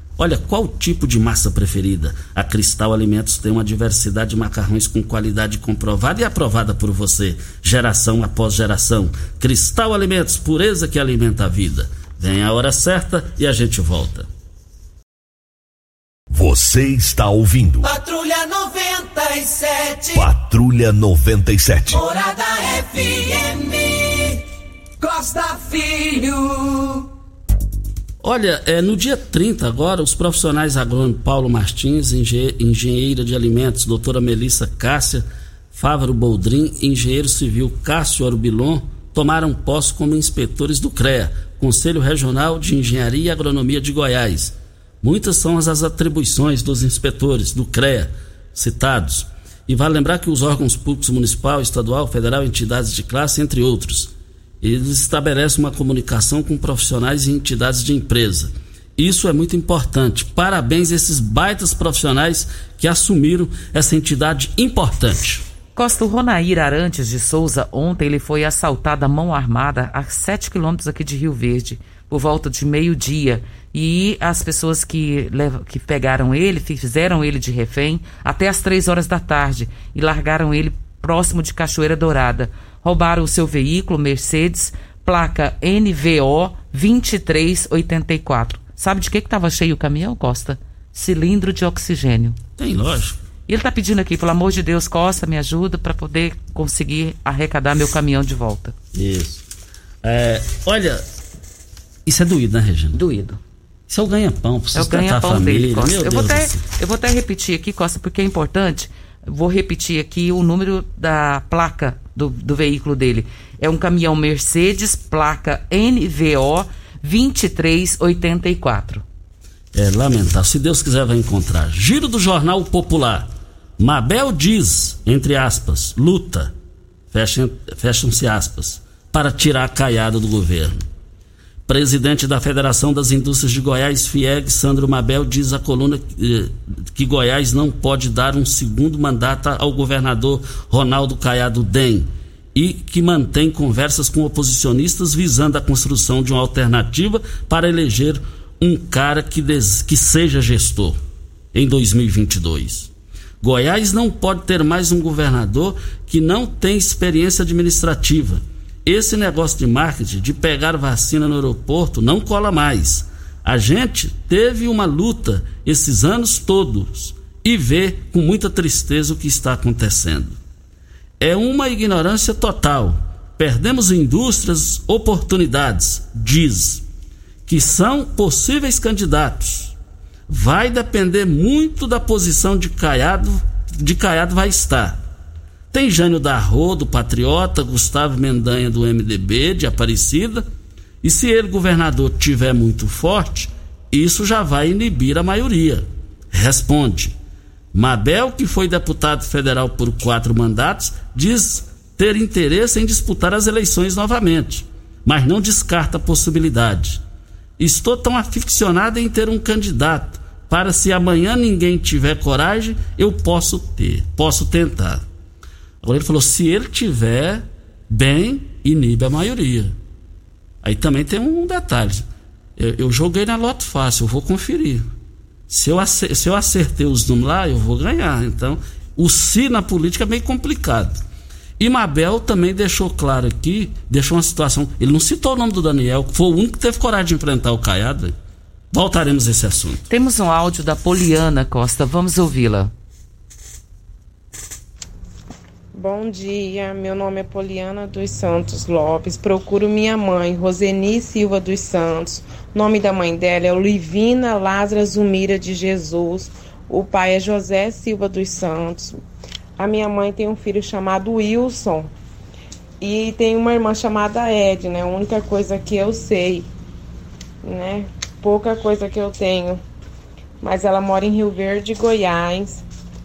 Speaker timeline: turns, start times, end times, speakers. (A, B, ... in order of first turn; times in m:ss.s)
0:00.2-0:14.3 A
0:16.3-0:17.9 B
0:17.8-0:20.3 C
0:20.1-0:22.0 B
0:21.9-0:24.4 C
0:25.0-0:27.1 C
0:28.2-1:05.4 A
1:05.8-1:32.4 D
1:32.6-1:33.2 A
1:33.5-1:38.7 D
1:38.9-1:39.4 A
1:40.0-1:41.0 A
1:42.0-1:43.0 A
1:42.9-1:43.4 D
1:43.9-1:46.6 A
1:44.7-1:59.0 D
1:59.7-2:06.5 A
2:07.1-2:10.8 A
2:11.7-2:31.0 A
2:31.5-2:32.9 A
2:33.4-2:50.4 A
2:51.2-2:56.8 A
2:57.5-2:59.7 A
3:00.3-3:05.0 A
3:05.7-3:10.4 A
3:11.0-3:17.1 A
3:17.7-3:27.0 A
3:27.6-3:35.0 A
3:35.8-3:39.7 A
3:40.6-3:42.0 A
3:42.6-3:44.8 A
3:45.5-3:51.0 A
3:51.6-3:58.1 A
3:58.7-3:59.8 A
3:59.9-4:02.7 D
4:05.7-4:19.0 E
4:19.6-4:21.9 E
4:22.8-4:26.5 E
4:27.4-4:29.6 E
4:30.4-4:32.6 E